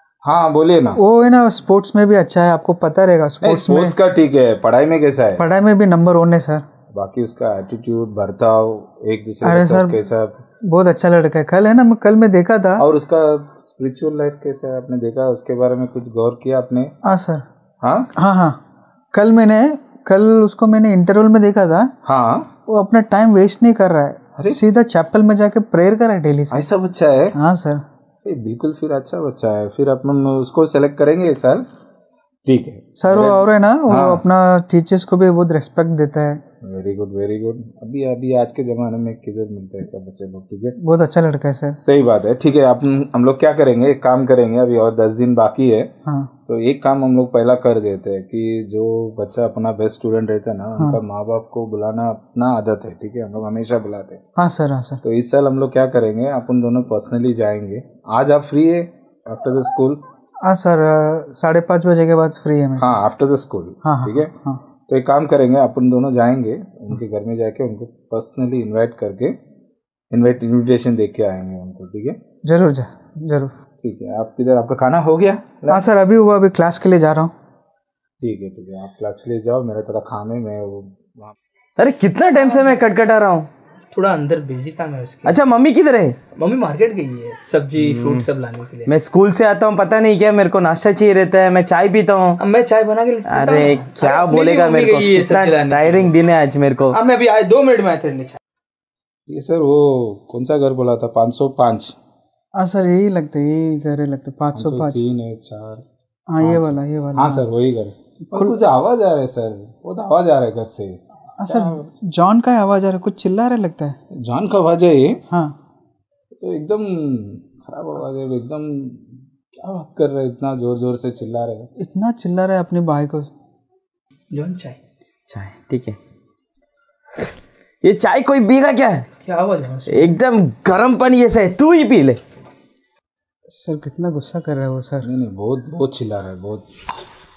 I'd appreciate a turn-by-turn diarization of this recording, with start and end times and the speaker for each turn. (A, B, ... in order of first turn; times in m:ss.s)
0:00.2-0:01.0 A
0:01.0-0:04.0 B
0:03.4-0:05.4 A
0:05.4-0:06.6 B
0:06.9-0:10.4 A
0:09.4-0:10.0 B
0:10.7-0:12.8 B
0:12.8-0:16.9 A
0:17.0-0:17.4 B
0:17.8-0:18.1 A
0:18.2-0:18.6 B
0:19.1-0:21.9 B
0:22.0-0:22.5 A
0:22.7-0:26.6 B
0:26.5-0:27.4 A
0:27.4-0:27.8 B
0:28.2-0:31.7 A
0:32.5-0:34.2 A
0:33.0-0:36.4 B
0:36.6-0:40.8 A
0:40.8-0:41.8 B
0:41.8-0:45.9 A
0:46.1-0:46.3 B
0:46.5-0:54.2 A
0:54.4-0:55.0 B
0:55.0-1:00.0 A
1:00.4-1:03.0 B
1:02.8-1:04.3 A
1:03.8-1:04.6 B
1:04.9-1:09.4 A
1:10.1-1:12.2 A
1:12.5-1:13.5 B
1:13.8-1:15.8 A
1:15.7-1:17.3 B
1:18.2-1:21.3 A
1:21.8-1:23.5 C
1:22.3-1:22.8 D
1:23.9-1:25.4 D
1:25.2-1:26.2 C
1:26.4-1:29.0 D
1:27.8-1:28.2 C
1:28.9-1:32.4 C
1:32.4-1:36.2 D
1:33.3-1:37.0 C
1:36.9-1:38.4 D
1:39.3-1:42.0 A
1:42.6-1:45.0 B
1:44.6-1:45.8 A
1:46.3-1:47.4 B
1:46.4-1:51.7 A
1:48.3-1:48.6 B
1:51.4-1:54.0 B
1:54.1-1:55.2 A
1:55.3-1:55.6 B
1:56.4-2:01.7 A
2:01.8-2:03.3 B
2:04.3-2:04.8 D
2:05.3-2:06.0 C
2:07.8-2:09.1 C
2:09.2-2:10.2 D
2:09.9-2:12.2 C
2:13.5-2:15.1 B
2:15.0-2:16.7 A